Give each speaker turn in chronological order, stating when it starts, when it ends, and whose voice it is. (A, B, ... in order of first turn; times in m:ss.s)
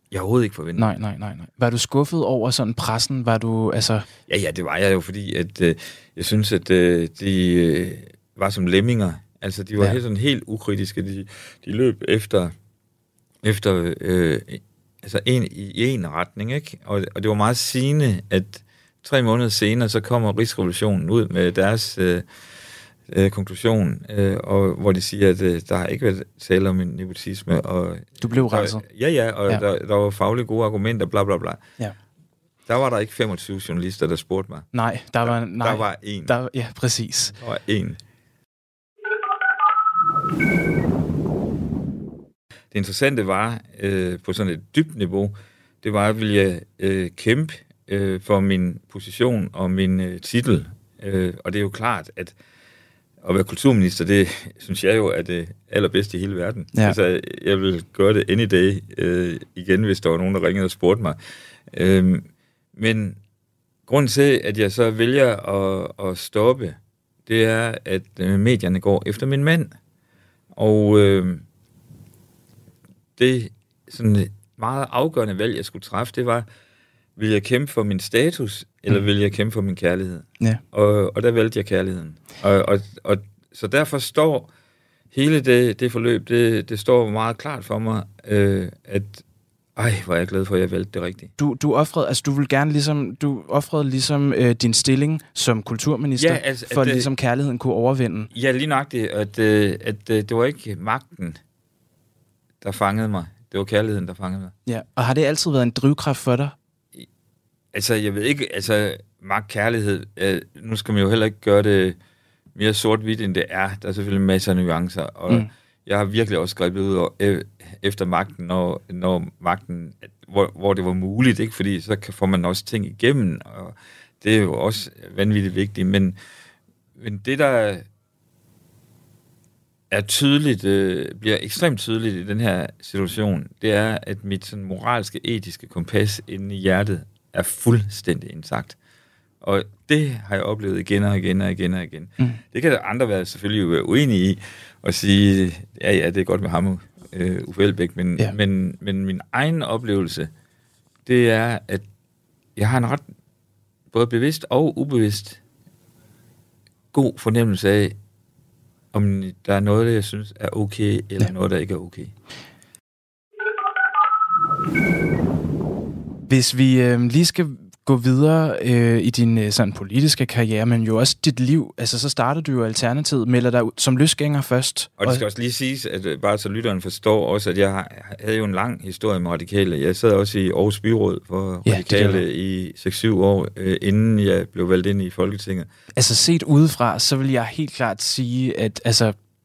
0:00.1-0:00.9 A
0:00.8-0:04.0 B
0:04.3-0:12.5 A
0:13.4-0:22.2 A
0:23.1-0:31.6 A
0:28.2-0:28.8 B
0:32.7-0:34.7 A
0:34.7-0:37.3 B
0:35.2-0:36.3 A
0:37.4-0:38.0 A
0:42.7-0:52.3 A
0:53.2-1:01.2 A
1:01.7-1:03.2 A
1:03.9-1:09.7 A
1:10.5-1:11.4 A
1:13.2-1:16.5 A
1:17.2-1:24.5 A
1:25.1-1:29.2 A
1:29.8-1:31.3 A
1:31.4-1:38.3 B
1:36.2-1:37.1 A
1:38.3-1:41.4 A
1:42.6-1:44.5 A
1:44.6-1:46.5 B
1:47.7-1:52.0 A
1:52.6-2:06.2 A
2:07.0-2:07.8 A
2:09.9-2:18.8 A
2:19.4-2:30.3 A
2:31.0-2:31.8 A
2:32.6-2:33.0 A
2:33.9-2:35.4 A
2:36.9-2:37.9 A
2:38.9-2:42.1 A
2:46.3-2:55.2 B
2:55.0-3:05.7 A
3:01.6-3:02.2 B
3:05.9-3:09.1 B